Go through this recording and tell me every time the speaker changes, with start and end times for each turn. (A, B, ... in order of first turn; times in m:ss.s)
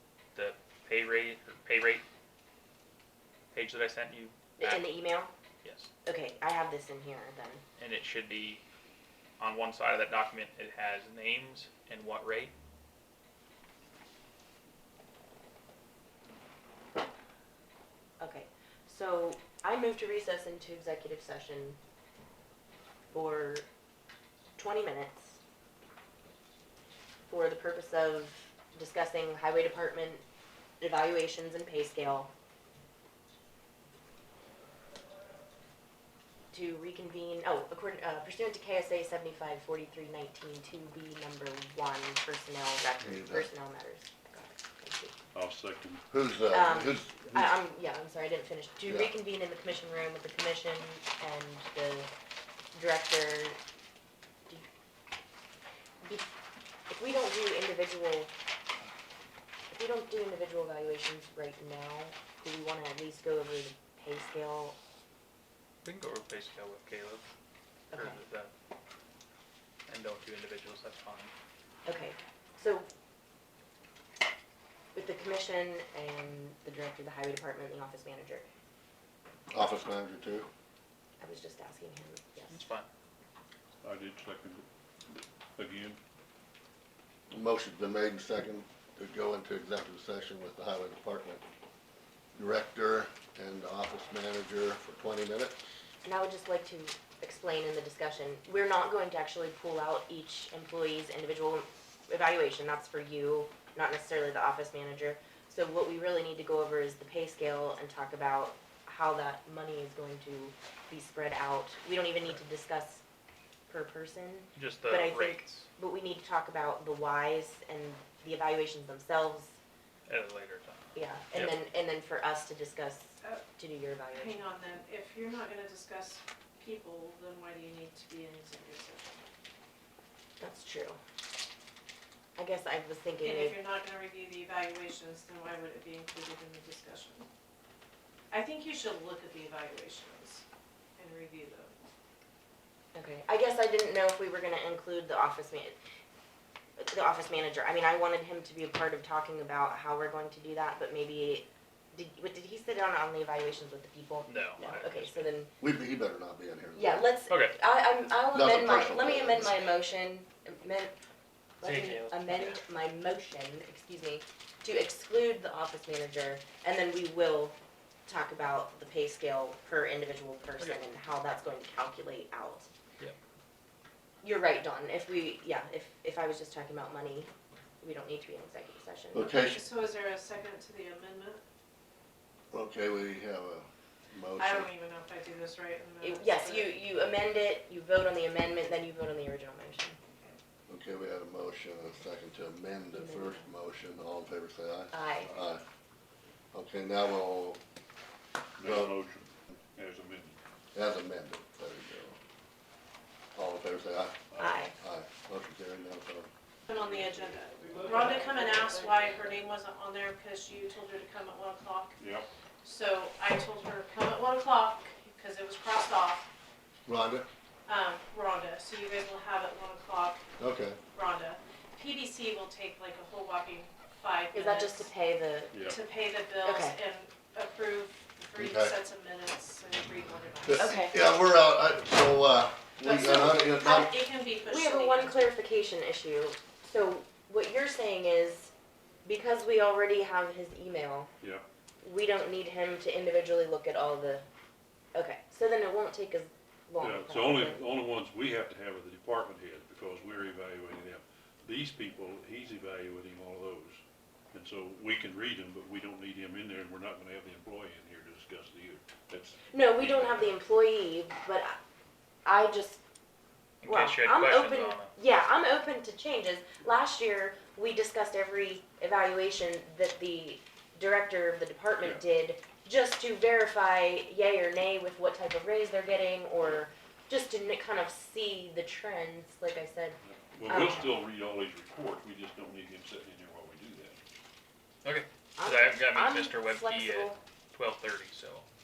0:00.3-0:02.0 A
0:03.5-0:04.9 A
0:04.6-0:05.3 B
0:05.6-0:05.9 A
0:06.0-0:07.6 B
0:07.8-0:08.6 A
0:09.4-0:12.5 A
0:18.2-0:21.8 B
0:23.1-0:23.6 B
0:24.6-0:25.4 B
0:27.3-0:30.2 B
0:30.8-0:32.3 B
0:36.5-0:45.1 B
0:43.0-0:43.5 C
0:45.3-0:46.0 D
0:46.1-0:47.5 C
0:46.5-0:52.1 B
0:48.9-0:49.1 C
0:52.7-0:53.6 B
0:56.0-0:56.3 B
0:56.9-0:58.3 B
0:59.7-1:04.8 B
1:05.8-1:07.3 A
1:07.9-1:08.2 B
1:07.9-1:08.5 A
1:09.9-1:11.3 A
1:11.8-1:12.9 B
1:14.9-1:18.4 B
1:19.5-1:20.5 C
1:21.2-1:22.6 B
1:22.5-1:22.9 A
1:23.8-1:26.0 D
1:27.3-1:31.4 C
1:32.3-1:35.6 C
1:36.0-1:53.0 B
1:53.7-1:59.6 B
1:54.5-1:55.7 A
2:00.1-2:01.6 A
2:00.9-2:04.4 B
2:04.1-2:09.2 E
2:10.4-2:11.0 B
2:12.4-2:13.6 B
2:13.2-2:17.2 E
2:18.3-2:20.4 E
2:21.0-2:21.7 E
2:22.9-2:25.8 B
2:26.8-2:35.5 B
2:34.2-2:35.3 A
2:35.6-2:37.1 C
2:36.7-2:40.9 B
2:37.3-2:37.5 A
2:38.3-2:39.6 C
2:41.6-2:47.5 B
2:41.6-2:42.5 A
2:48.0-2:52.7 B
2:54.2-2:59.4 B
2:59.1-2:59.6 C
2:59.5-3:01.4 E
3:02.5-3:04.7 C
3:04.4-3:06.8 E
3:06.0-3:10.0 B
3:10.7-3:15.6 C
3:12.9-3:13.5 B
3:14.9-3:15.3 B
3:16.5-3:17.6 C
3:18.6-3:20.4 D
3:18.6-3:18.9 C
3:20.7-3:22.2 C
3:23.3-3:26.3 C
3:24.3-3:24.7 D
3:24.4-3:24.7 B
3:26.7-3:32.0 E
3:26.7-3:29.0 D
3:32.0-3:32.3 D
3:32.6-3:36.3 E
3:36.8-3:37.3 C
3:37.6-3:40.2 E
3:40.4-3:40.8 C
3:40.9-3:44.9 E
3:44.3-3:45.7 B
3:45.5-3:45.8 D
3:45.6-3:50.9 E
3:46.4-3:46.8 B
3:48.4-3:48.8 C
3:50.5-3:53.9 C
3:50.5-3:50.9 B
3:52.8-3:55.3 E
3:54.4-3:58.5 B
3:59.0-4:01.1 B
4:01.8-4:04.3 B
4:04.9-4:07.6 B
4:06.8-4:13.8 D
4:14.3-4:20.3 D
4:19.5-4:21.6 B
4:22.2-4:22.8 B
4:23.6-4:24.9 A
4:23.6-4:40.8 B
4:40.0-4:44.0 D
4:44.8-4:48.4 A
4:45.4-4:47.2 B